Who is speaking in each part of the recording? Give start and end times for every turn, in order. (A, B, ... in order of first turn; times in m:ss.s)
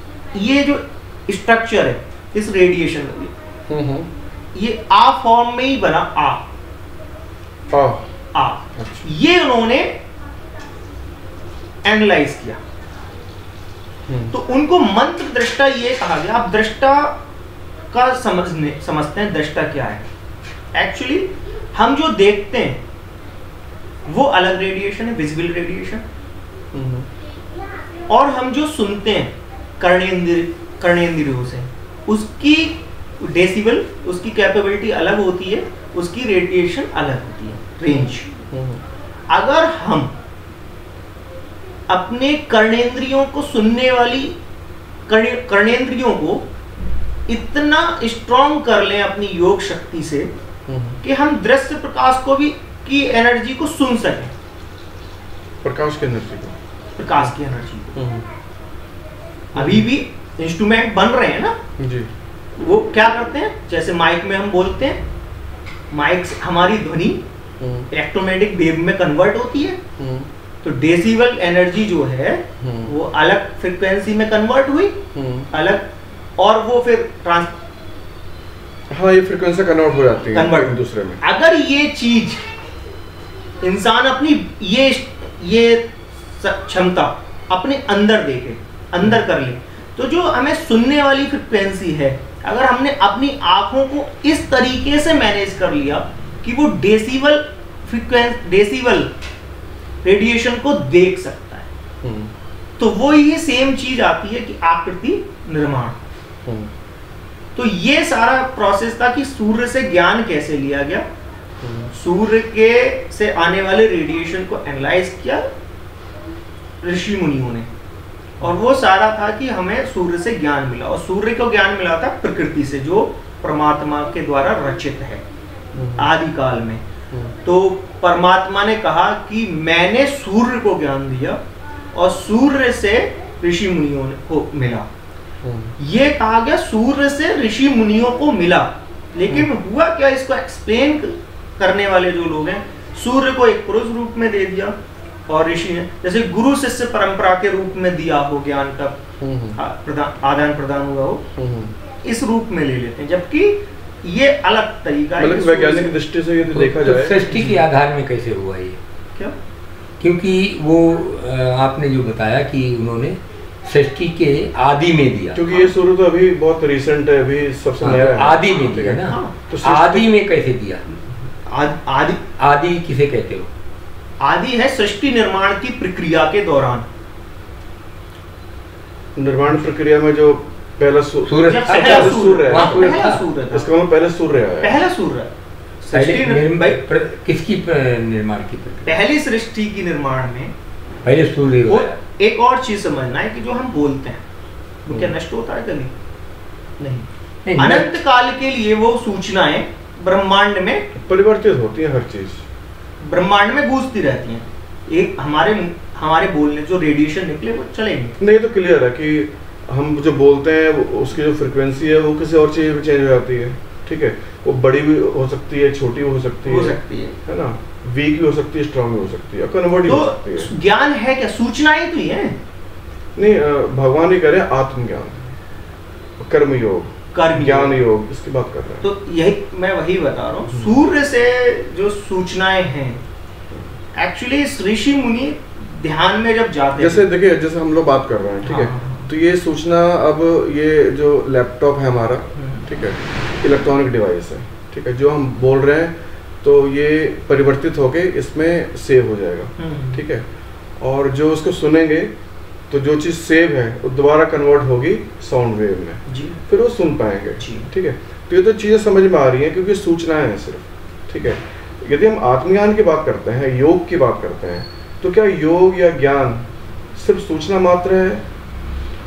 0:00.3-0:03.3 A
0:03.7-0:04.1 B
0:04.5-0:06.5 A
0:07.7-0:08.1 B
0:08.3-0:10.0 A
0:08.8-0:09.1 B
0:11.8-0:12.6 A
0:14.1-0:14.3 B
0:14.3-0:17.2 A
0:17.9-0:20.1 A
0:20.8-0:22.8 A
0:24.1-0:26.1 A
0:26.7-0:27.1 B
0:28.1-0:38.3 A
0:38.5-0:38.8 B
0:39.3-0:40.2 A
0:41.9-0:44.4 A
0:45.1-0:46.5 A
0:47.3-0:50.3 A
0:50.7-0:51.0 B
0:51.0-0:54.3 A
0:55.6-0:56.6 B
0:57.0-0:58.0 A
0:58.0-0:58.3 B
0:59.5-1:01.6 A
0:59.6-0:59.9 B
1:01.8-1:02.1 B
1:02.6-1:05.0 A
1:05.9-1:07.2 A
1:07.6-1:07.9 B
1:07.9-1:09.8 A
1:10.0-1:10.3 B
1:10.6-1:17.6 A
1:12.6-1:12.9 B
1:15.1-1:15.5 B
1:18.9-1:21.2 B
1:20.3-1:22.5 A
1:23.6-1:39.1 A
1:40.0-1:41.7 A
1:42.0-1:42.3 B
1:42.8-1:46.0 A
1:46.4-1:46.7 B
1:47.6-1:51.1 A
1:51.6-1:51.9 B
1:51.9-1:55.5 A
1:56.8-1:57.7 A
1:58.4-2:05.2 A
2:05.7-2:06.1 B
2:06.0-2:06.8 A
2:07.4-2:11.4 A
2:11.9-2:14.9 A
2:15.4-2:15.7 B
2:15.8-2:24.8 A
2:25.3-2:29.0 A
2:29.2-2:29.6 B
2:29.5-2:31.3 A
2:31.4-2:31.8 B
2:32.0-2:36.0 A
2:35.2-2:37.2 B
2:36.5-2:38.8 C
2:37.3-2:37.6 A
2:40.0-2:45.5 C
2:45.3-2:50.1 B
2:47.8-2:50.8 C
2:49.0-2:49.3 A
2:51.5-2:52.2 A
2:52.4-2:53.5 C
2:54.2-2:56.9 A
2:59.2-3:04.8 B
3:01.3-3:03.2 C
3:01.5-3:03.7 A
3:04.6-3:05.3 A
3:05.8-3:06.8 A
3:05.9-3:09.0 C
3:08.9-3:10.5 A
3:11.0-3:12.0 C
3:11.7-3:14.2 A
3:14.9-3:15.9 A
3:16.8-3:20.9 A
3:17.4-3:18.0 C
3:21.0-3:22.4 B
3:23.0-3:28.2 A
3:28.2-3:40.5 B
3:36.5-3:37.2 A
3:39.9-3:42.4 A
3:43.2-3:45.3 B
3:46.2-3:48.8 B
3:47.1-3:47.8 A
3:48.8-3:53.0 A
3:50.5-3:50.8 B
3:54.0-3:57.1 A
3:56.8-4:10.3 B
3:58.4-3:59.1 A
4:02.4-4:02.7 A
4:09.6-4:10.0 A
4:10.8-4:12.1 B
4:12.7-4:28.3 B
4:16.1-4:16.4 A
4:17.4-4:17.7 A